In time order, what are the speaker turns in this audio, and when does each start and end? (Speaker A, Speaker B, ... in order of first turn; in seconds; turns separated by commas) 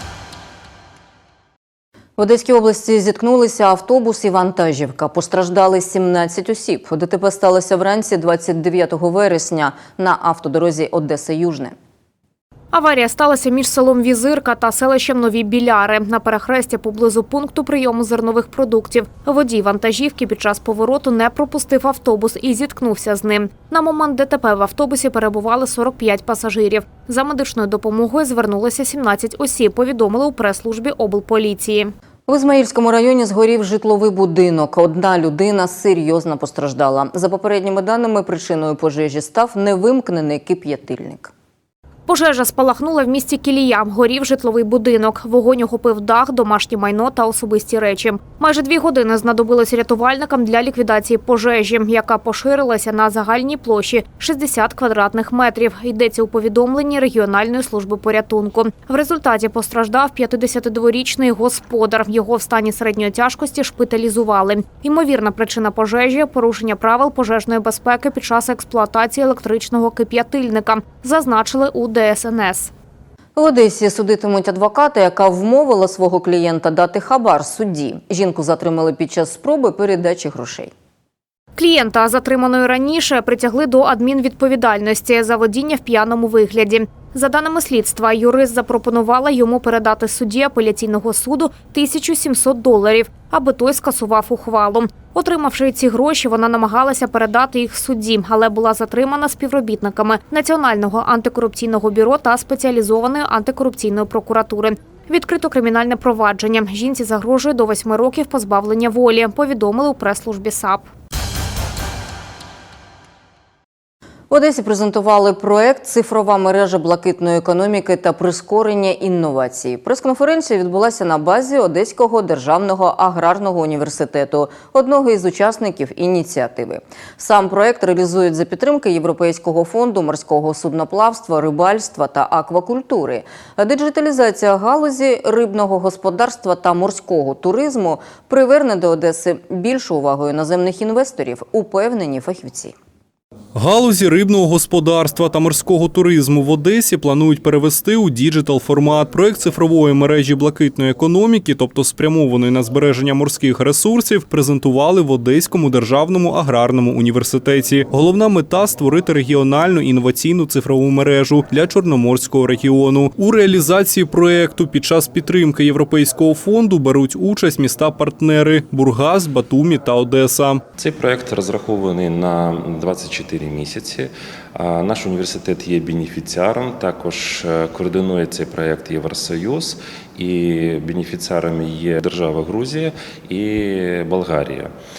Speaker A: 2.2-11.8, Speaker B: 12.7-31.9, Speaker A: 32.3-41.3, Speaker B: 42.1-72.7, Speaker A: 73.3-80.7, Speaker B: 81.6-110.9, Speaker A: 114.3-142.7, Speaker C: 143.5-170.6, Speaker D: 170.7-184.7